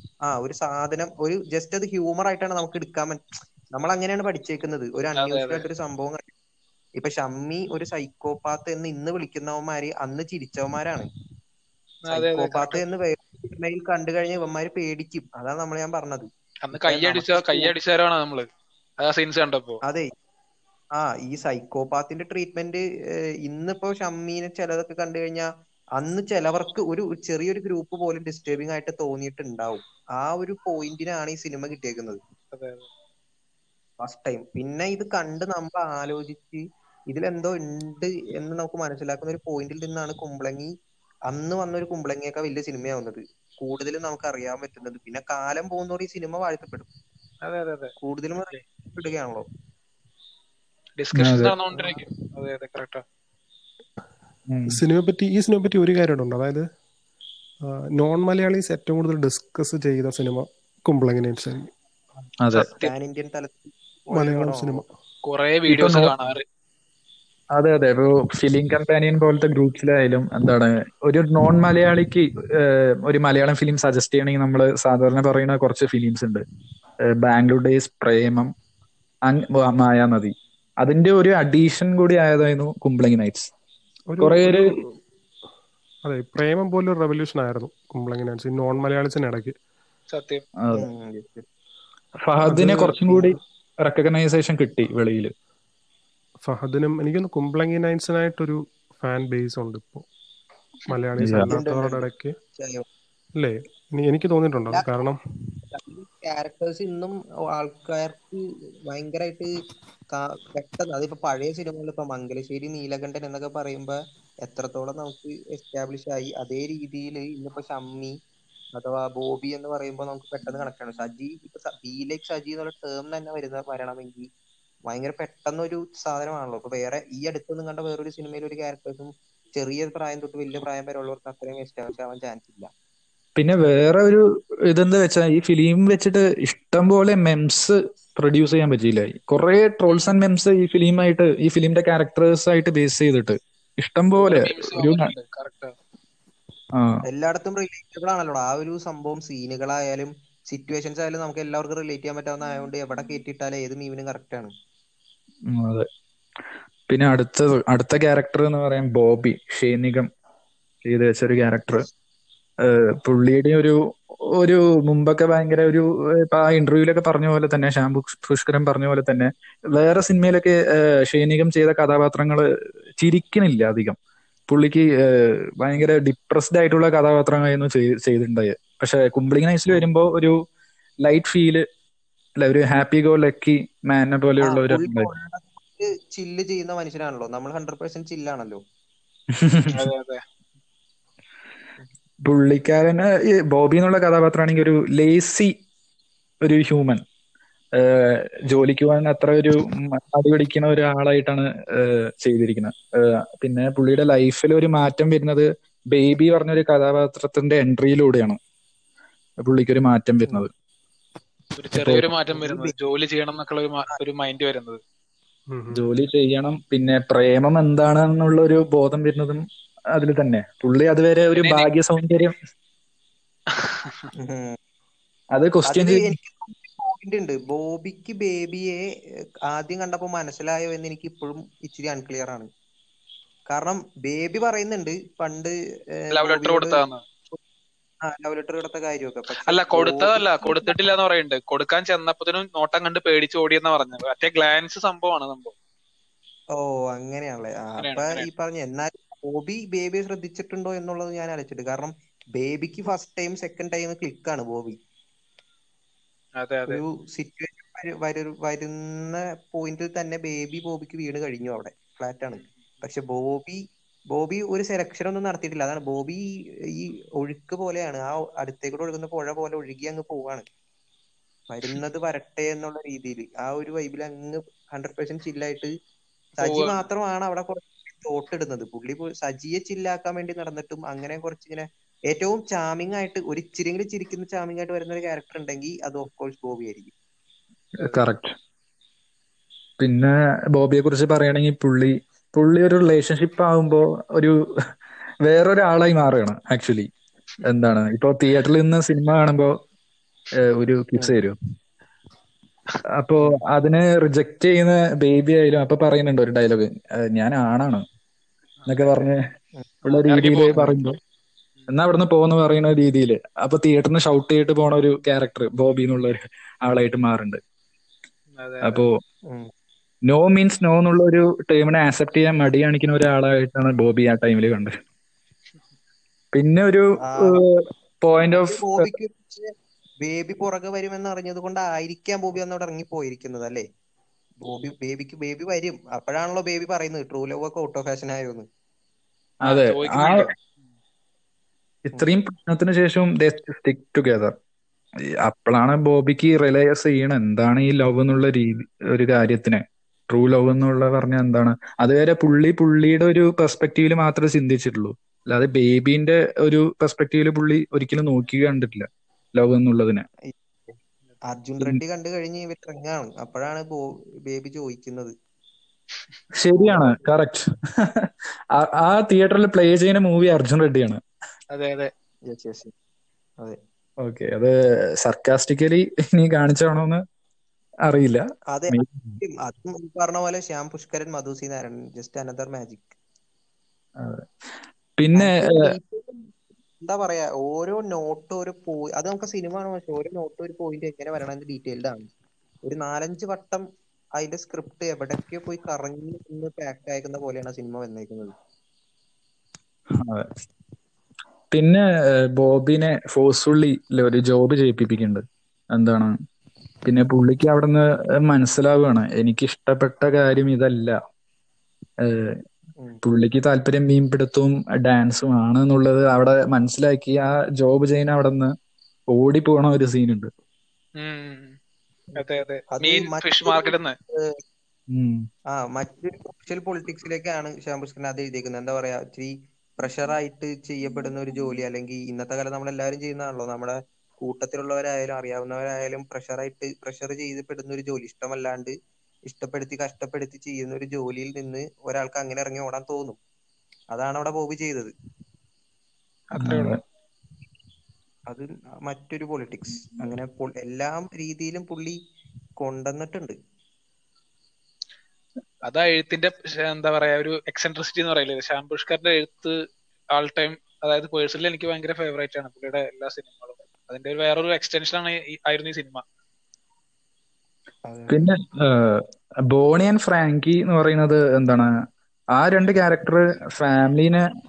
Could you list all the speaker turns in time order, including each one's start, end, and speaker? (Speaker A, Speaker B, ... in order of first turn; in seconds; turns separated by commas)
Speaker A: 0.3-6.3, Speaker B: 5.2-5.6, Speaker A: 7.0-11.1, Speaker B: 12.1-12.8, Speaker A: 12.1-17.7, Speaker B: 16.7-18.4, Speaker B: 19.0-19.8, Speaker A: 19.9-20.1, Speaker A: 20.9-22.8, Speaker A: 23.4-32.2, Speaker B: 32.5-32.9, Speaker A: 34.0-40.7, Speaker A: 41.3-46.9, Speaker B: 47.4-47.9, Speaker A: 48.0-49.5, Speaker B: 51.0-53.0, Speaker C: 51.1-51.5, Speaker C: 54.5-54.8, Speaker D: 54.7-56.6, Speaker D: 57.6-61.7, Speaker C: 62.4-62.7, Speaker B: 62.5-62.9, Speaker A: 62.5-64.8, Speaker D: 64.1-64.9, Speaker B: 65.2-66.4, Speaker C: 65.7-66.1, Speaker C: 67.5-76.4, Speaker C: 77.1-78.5, Speaker C: 79.2-83.5, Speaker D: 84.1-84.9, Speaker C: 84.2-84.8, Speaker D: 86.0-89.5, Speaker B: 90.1-90.4, Speaker A: 90.7-91.5, Speaker C: 92.2-95.3, Speaker D: 92.5-93.3, Speaker D: 96.5-100.0, Speaker D: 100.9-102.3, Speaker C: 101.2-101.5, Speaker A: 101.5-102.8, Speaker D: 103.3-105.5, Speaker A: 105.7-109.5, Speaker A: 110.1-118.2, Speaker A: 118.7-124.3, Speaker A: 124.9-132.7, Speaker C: 133.3-145.1, Speaker B: 139.9-140.1, Speaker B: 144.2-145.7, Speaker C: 146.7-147.0, Speaker A: 147.1-154.5, Speaker C: 155.5-155.9, Speaker C: 156.9-160.1, Speaker C: 160.8-161.8, Speaker C: 162.6-163.8, Speaker C: 164.3-172.4, Speaker C: 173.0-173.9, Speaker C: 174.5-180.3, Speaker C: 181.0-181.6, Speaker C: 182.4-185.1, Speaker A: 184.4-188.6, Speaker C: 189.3-189.8, Speaker B: 189.7-190.2, Speaker C: 192.2-195.5, Speaker C: 196.4-197.0, Speaker C: 197.8-208.4, Speaker C: 209.4-210.5, Speaker B: 211.6-214.8, Speaker C: 211.8-212.1, Speaker A: 212.3-212.7, Speaker D: 215.5-215.8, Speaker C: 215.7-222.3, Speaker B: 221.3-221.7, Speaker B: 223.6-224.1, Speaker A: 224.1-224.6, Speaker C: 225.3-226.1, Speaker A: 225.7-228.8, Speaker A: 229.5-232.5, Speaker A: 233.5-236.8, Speaker B: 236.1-237.0, Speaker A: 238.0-240.7, Speaker B: 239.4-245.5, Speaker A: 246.5-254.8, Speaker B: 247.8-248.2, Speaker B: 256.4-256.8, Speaker A: 256.7-266.2, Speaker A: 266.7-270.4, Speaker A: 271.5-275.7, Speaker A: 276.4-286.9, Speaker B: 276.4-276.8, Speaker C: 287.8-288.3, Speaker B: 287.8-288.0, Speaker C: 289.8-294.4, Speaker C: 295.3-296.9, Speaker C: 297.4-299.6, Speaker C: 300.3-301.4, Speaker C: 303.0-307.8, Speaker C: 308.6-309.2, Speaker C: 309.8-311.0, Speaker B: 310.0-310.7, Speaker C: 311.7-317.4, Speaker B: 318.4-318.8, Speaker C: 318.6-318.9, Speaker C: 320.0-324.7, Speaker C: 326.3-328.9, Speaker A: 327.0-327.4, Speaker A: 328.3-329.5, Speaker A: 330.0-333.6, Speaker A: 334.4-338.4, Speaker C: 339.4-340.3, Speaker B: 339.4-340.3, Speaker C: 341.9-344.3, Speaker C: 345.2-360.1, Speaker A: 360.2-360.8, Speaker A: 361.3-365.1, Speaker C: 366.3-371.0, Speaker A: 366.6-367.0, Speaker B: 371.5-371.9, Speaker A: 372.3-372.7, Speaker C: 374.0-377.0, Speaker C: 377.9-379.2, Speaker A: 378.5-382.9, Speaker C: 384.0-384.3, Speaker C: 385.0-385.7, Speaker A: 385.1-386.3, Speaker A: 386.8-392.1, Speaker A: 392.7-393.6, Speaker A: 394.2-398.3, Speaker C: 399.9-400.3, Speaker C: 401.5-406.1, Speaker C: 406.8-411.0, Speaker C: 412.0-412.4, Speaker C: 413.0-418.5, Speaker C: 419.1-420.3, Speaker B: 421.0-421.6, Speaker A: 422.1-424.4, Speaker B: 422.1-423.9, Speaker C: 424.9-425.2, Speaker A: 425.5-438.7, Speaker A: 439.3-443.2, Speaker A: 443.9-444.9, Speaker B: 446.3-446.8, Speaker C: 446.4-446.8, Speaker A: 448.3-452.0, Speaker A: 452.6-453.4, Speaker B: 455.6-459.6, Speaker B: 460.1-466.0, Speaker A: 467.9-468.2, Speaker C: 468.1-471.7, Speaker C: 472.3-474.2